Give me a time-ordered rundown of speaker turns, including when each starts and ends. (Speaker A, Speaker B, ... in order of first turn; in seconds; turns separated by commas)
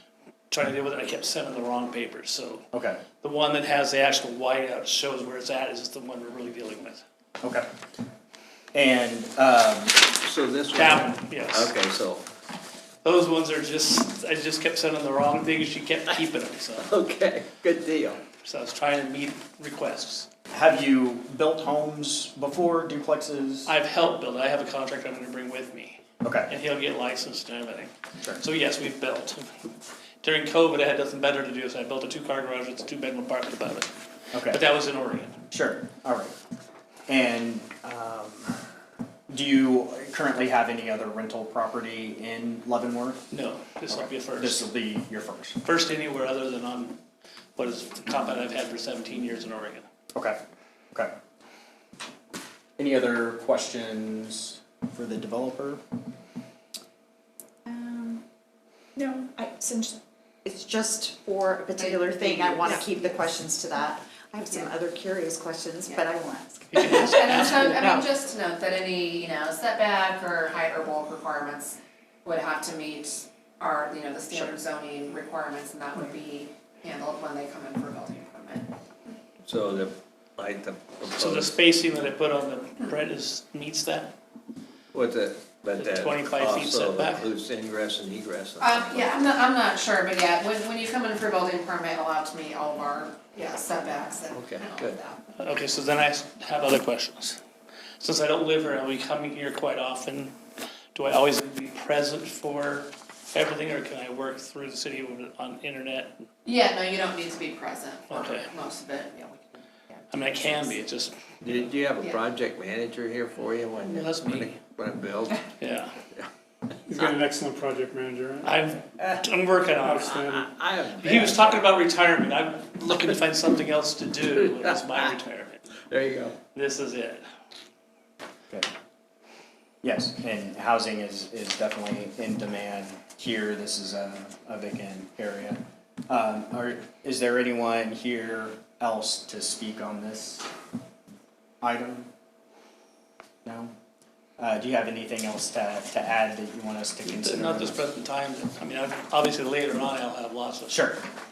Speaker A: 0.5-2.6, Speaker B: 2.7-3.0, Speaker A: 3.2-7.0, Speaker B: 7.4-7.7, Speaker B: 8.7-10.0, Speaker C: 10.2-12.2, Speaker A: 10.7-11.7, Speaker A: 13.0-16.9, Speaker C: 16.9-18.2, Speaker A: 18.4-20.3, Speaker B: 20.5-23.7, Speaker A: 23.6-29.5, Speaker B: 26.2-26.5, Speaker A: 30.2-35.4, Speaker B: 34.3-34.6, Speaker B: 35.5-36.3, Speaker B: 37.1-38.6, Speaker B: 39.3-43.2, Speaker A: 43.3-44.6, Speaker B: 43.9-45.6, Speaker A: 45.6-47.0, Speaker A: 47.5-49.9, Speaker B: 52.8-55.8, Speaker D: 57.6-58.2, Speaker D: 59.0-68.1, Speaker E: 61.8-63.2, Speaker A: 66.7-68.0, Speaker E: 67.0-78.7, Speaker C: 79.4-81.5, Speaker A: 81.1-84.1, Speaker C: 84.9-89.2, Speaker A: 85.8-87.2, Speaker E: 88.6-95.2, Speaker C: 94.3-95.0, Speaker A: 95.4-97.4, Speaker A: 98.0-100.3, Speaker A: 100.9-106.2, Speaker E: 106.4-110.7, Speaker A: 108.1-108.5, Speaker A: 110.1-111.2, Speaker C: 111.4-115.5, Speaker A: 113.8-114.6, Speaker A: 115.6-115.9, Speaker F: 116.9-118.5, Speaker A: 118.4-120.2, Speaker F: 120.0-120.4, Speaker C: 120.1-121.6, Speaker A: 121.0-125.7, Speaker C: 124.5-125.0, Speaker C: 125.9-126.3, Speaker A: 126.5-127.2, Speaker B: 129.8-140.5, Speaker B: 141.6-142.1, Speaker B: 143.4-143.7, Speaker B: 144.4-147.8, Speaker A: 147.0-150.8, Speaker B: 150.7-151.0